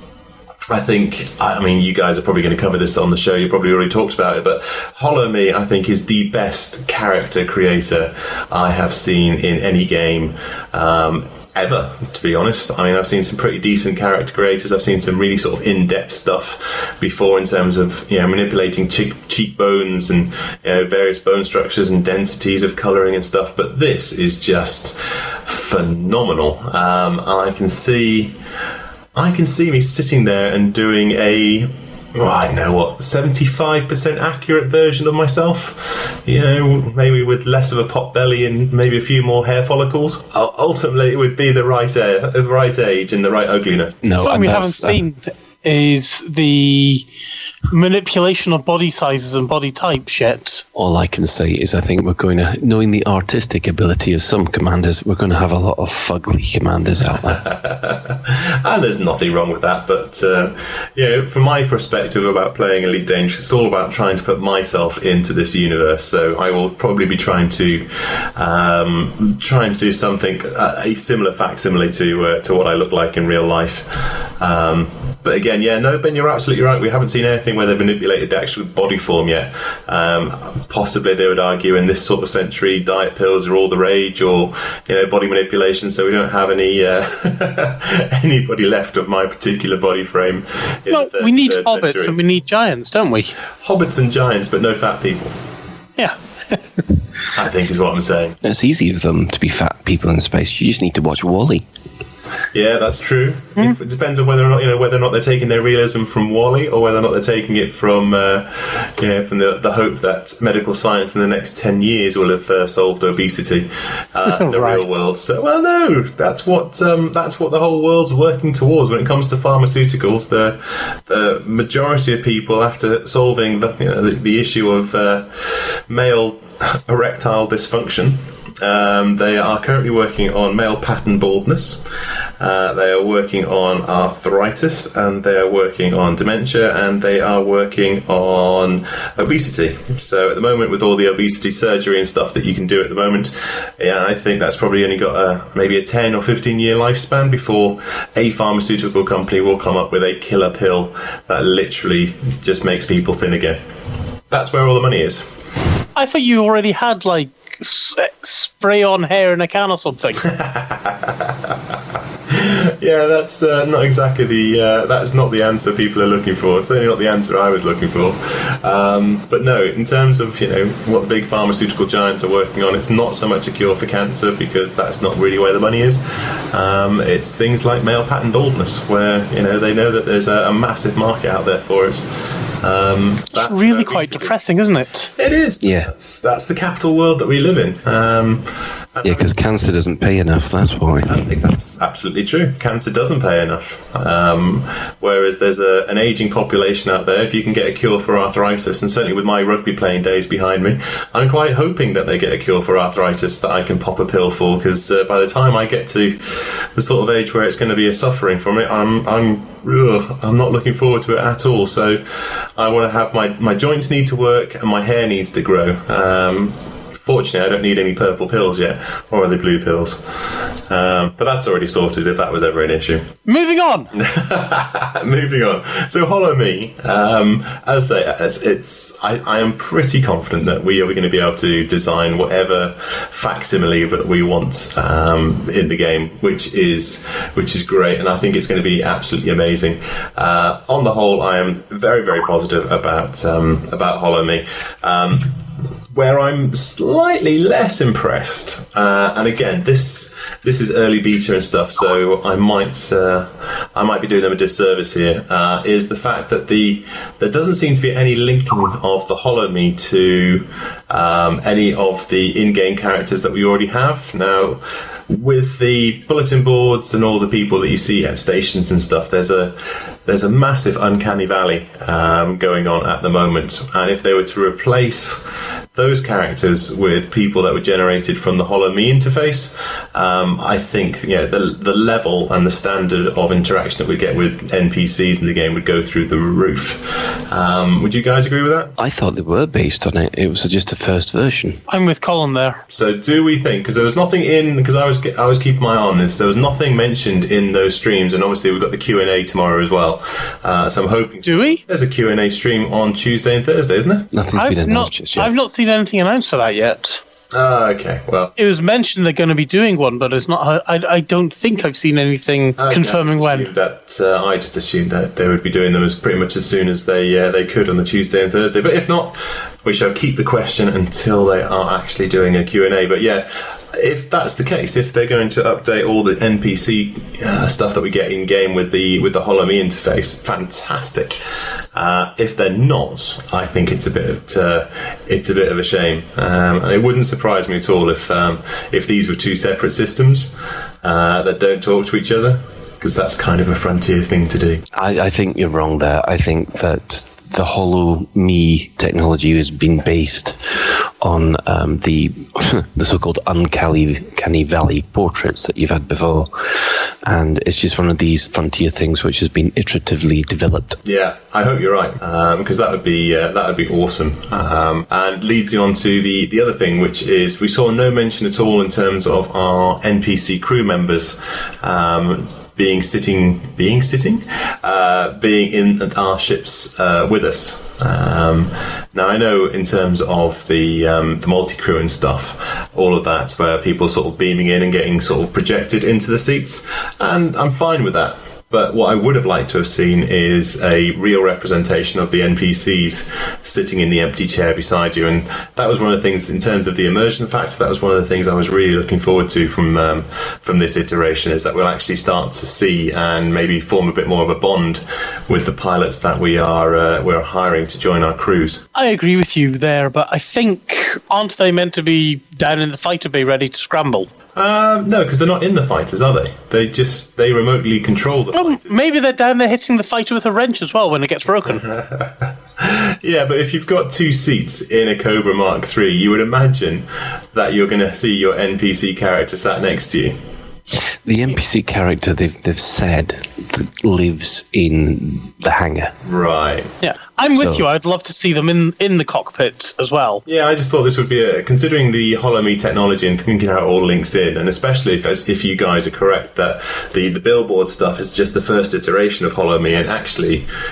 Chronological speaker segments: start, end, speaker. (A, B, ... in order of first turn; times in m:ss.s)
0:00.7-0:28.3 A
0:29.2-0:44.0 A
0:44.0-0:45.0 B
0:44.2-0:47.1 C
0:47.7-0:50.6 C
0:50.8-0:57.4 B
0:57.4-1:32.2 A
1:30.9-1:33.3 C
1:33.6-1:35.4 A
1:36.0-1:36.6 C
1:37.3-1:38.4 A
1:38.4-1:41.6 B
1:42.5-2:11.8 A
1:54.3-1:55.0 C
2:12.4-2:33.6 A
2:34.3-2:35.4 A
2:36.0-2:40.2 C
2:40.2-2:41.5 A
2:42.3-3:02.0 A
3:02.6-3:04.4 A
3:03.3-3:05.1 C
3:05.2-3:09.6 A
3:05.6-3:05.9 B
3:09.0-3:11.2 B
3:11.1-3:32.0 A
3:32.6-3:43.1 A
3:43.3-3:43.9 C
3:43.9-4:05.3 A
4:05.9-4:35.2 A
4:35.7-4:48.7 A
4:48.8-4:51.6 B
4:51.7-4:52.6 C
4:52.7-5:04.1 A
5:01.2-5:01.6 C
5:04.1-5:05.3 B
5:04.4-5:07.0 C
5:07.3-5:08.3 A
5:08.4-5:13.5 C
5:12.6-5:31.2 A
5:31.7-5:44.6 A
5:44.7-6:00.8 B
6:00.8-6:48.6 A
6:48.8-6:54.1 C
6:54.4-6:58.9 A
6:58.3-7:01.6 C
7:01.5-7:10.2 A
7:10.7-7:15.9 B
7:16.0-7:16.7 A
7:16.8-7:20.2 C
7:17.4-7:17.7 B
7:20.3-7:30.4 A